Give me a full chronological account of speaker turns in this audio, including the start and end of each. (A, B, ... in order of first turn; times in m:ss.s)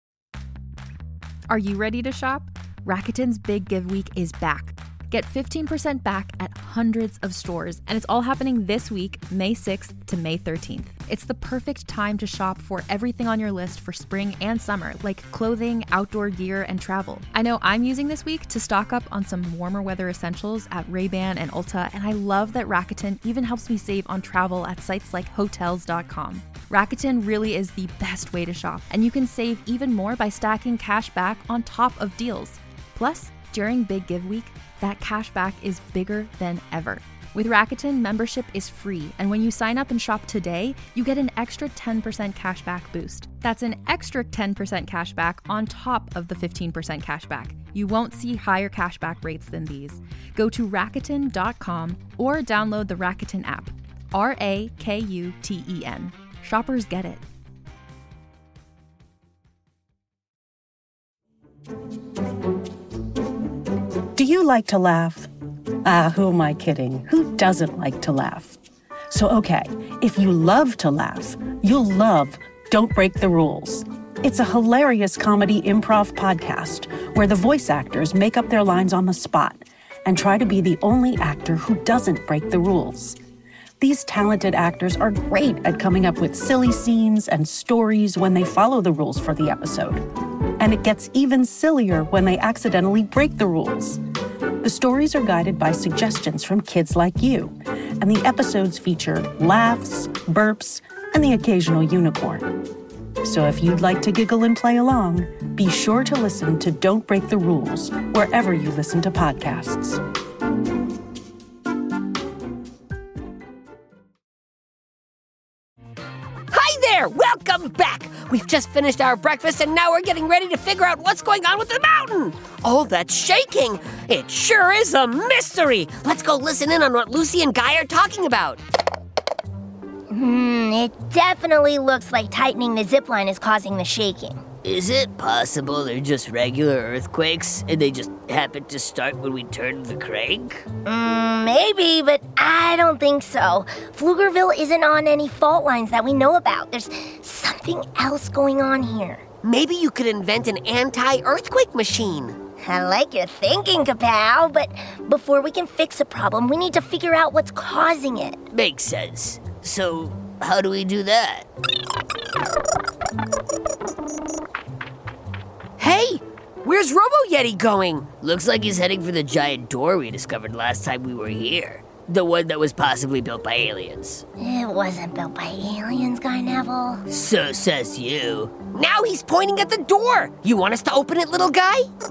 0:01.5-0:57.2 A
1:04.1-1:05.3 B
1:05.8-1:08.6 B
1:09.1-1:23.2 B
1:23.8-1:30.0 B
1:30.6-1:34.0 B
1:34.6-1:42.6 B
1:43.2-1:50.0 B
1:56.5-2:08.6 C
2:10.1-2:14.4 D
2:14.6-2:20.6 E
2:20.8-2:29.2 D
2:29.4-2:32.4 C
2:32.6-2:38.4 D
2:38.5-2:41.5 E
2:45.8-2:48.1 C
2:48.2-2:54.2 E
2:54.4-2:57.0 D
2:57.1-2:58.6 E
2:58.7-3:01.9 C